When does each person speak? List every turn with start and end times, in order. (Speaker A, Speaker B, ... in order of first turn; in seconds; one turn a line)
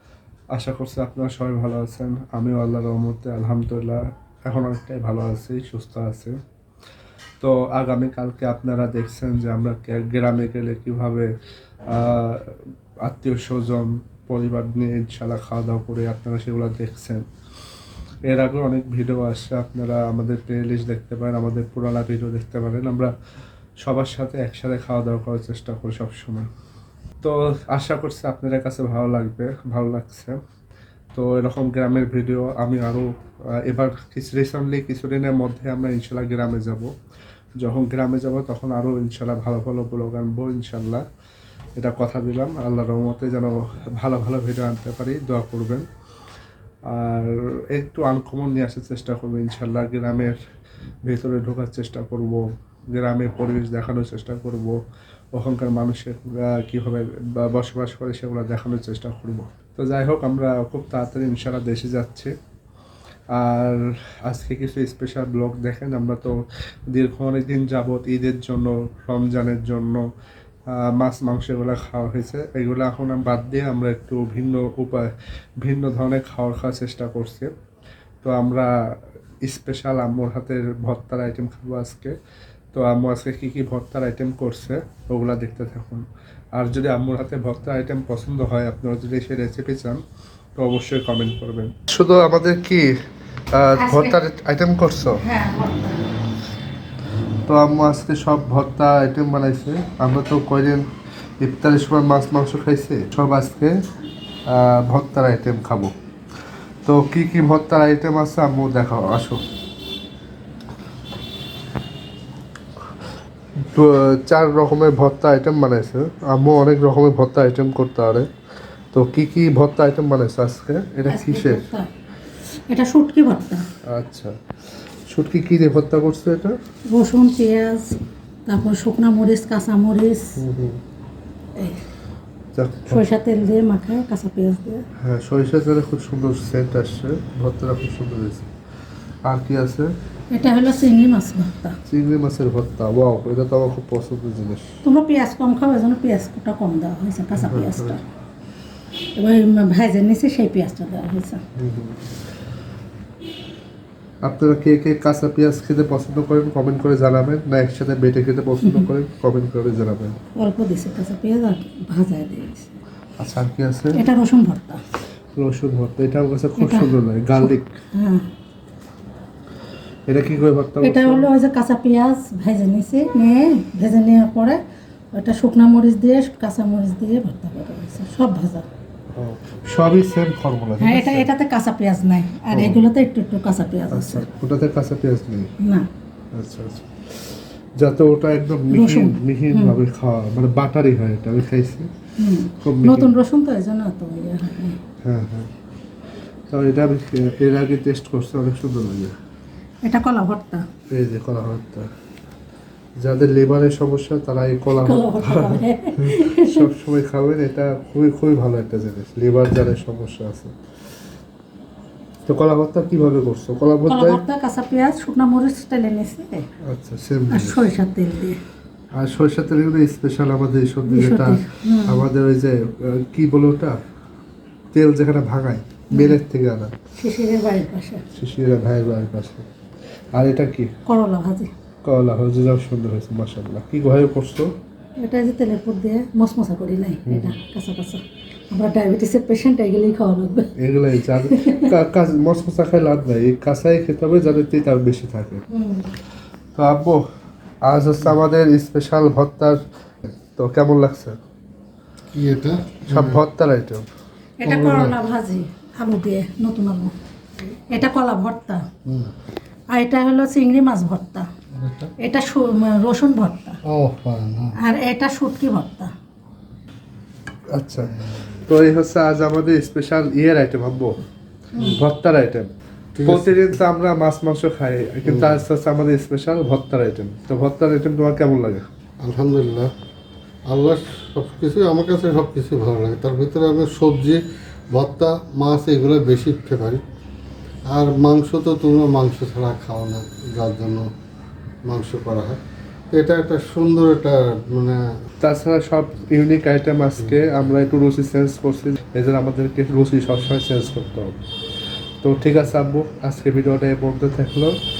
Speaker A: 0.5-6.3
Speaker A: 7.4-11.3
Speaker A: 11.9-17.2
Speaker A: 18.2-23.1
Speaker A: 23.8-26.5
Speaker A: 27.2-30.4
Speaker A: 31.1-33.1
Speaker A: 33.6-36.9
Speaker A: 37.6-41.0
Speaker A: 41.8-45.9
Speaker A: 46.9-50.4
Speaker A: 51.0-54.8
Speaker A: 55.3-62.3
Speaker A: 63.4-66.4
Speaker A: 66.9-70.0
Speaker A: 70.7-77.5
Speaker A: 78.2-78.7
Speaker A: 79.4-82.1
Speaker A: 82.7-90.0
Speaker A: 90.6-92.9
Speaker A: 93.5-95.2
Speaker B: 93.8-94.2
Speaker B: 95.2-96.1
Speaker A: 97.4-100.8
Speaker A: 101.4-103.7
Speaker A: 104.5-105.9
Speaker A: 106.8-109.4
Speaker A: 113.7-118.3
Speaker A: 118.9-121.6
Speaker B: 121.1-121.9
Speaker B: 122.7-123.7
Speaker A: 123.8-124.3
Speaker A: 125.1-126.6
Speaker B: 126.9-130.3
Speaker A: 130.3-130.8
Speaker B: 131.6-131.8
Speaker A: 132.5-133.0
Speaker B: 132.9-134.8
Speaker A: 135.0-138.5
Speaker A: 139.2-139.9
Speaker B: 140.3-141.8
Speaker A: 141.9-144.7
Speaker B: 144.8-148.0
Speaker A: 147.3-148.0
Speaker B: 149.2-151.4
Speaker A: 151.6-152.0
Speaker A: 154.2-160.2
Speaker B: 160.3-162.7
Speaker A: 163.2-164.0
Speaker B: 163.9-164.8
Speaker A: 165.3-167.7
Speaker B: 166.6-168.3
Speaker A: 170.1-171.3
Speaker B: 170.8-174.6
Speaker B: 175.1-178.7
Speaker A: 179.1-181.3
Speaker B: 180.8-184.2
Speaker A: 182.5-182.8
Speaker A: 183.9-185.5
Speaker B: 185.6-185.9
Speaker A: 186.3-191.9
Speaker B: 188.7-189.8
Speaker B: 192.2-194.8
Speaker A: 192.6-193.1
Speaker A: 195.0-195.5
Speaker A: 196.5-199.1
Speaker B: 199.8-200.7
Speaker A: 200.9-201.9
Speaker A: 203.0-210.5
Speaker B: 204.7-206.7
Speaker A: 212.3-214.2
Speaker B: 213.9-216.5
Speaker A: 216.6-217.7
Speaker B: 217.3-218.4
Speaker A: 218.9-223.8
Speaker B: 220.8-222.1
Speaker A: 224.7-226.8
Speaker B: 225.9-226.2
Speaker B: 227.0-228.0
Speaker A: 228.1-229.4
Speaker A: 230.1-230.7
Speaker B: 230.8-231.5
Speaker A: 231.8-234.5
Speaker B: 235.0-241.7
Speaker A: 237.0-237.4
Speaker A: 240.6-245.4
Speaker B: 245.5-245.9
Speaker A: 246.5-247.0
Speaker A: 247.6-249.6
Speaker A: 250.3-251.2
Speaker C: 252.1-253.2
Speaker A: 252.9-253.8
Speaker B: 254.4-256.9
Speaker C: 254.4-254.9
Speaker B: 257.7-258.6
Speaker C: 258.8-259.1
Speaker B: 259.7-261.3
Speaker C: 261.5-261.9
Speaker B: 262.0-263.6
Speaker C: 263.6-264.6
Speaker B: 264.6-265.9
Speaker A: 267.5-271.0
Speaker A: 271.6-272.5
Speaker C: 272.9-273.4
Speaker A: 273.0-278.6
Speaker C: 275.0-275.4
Speaker C: 279.0-279.7
Speaker C: 280.4-286.8
Speaker C: 287.7-290.9
Speaker C: 291.6-294.9
Speaker A: 295.2-301.1
Speaker A: 302.0-304.6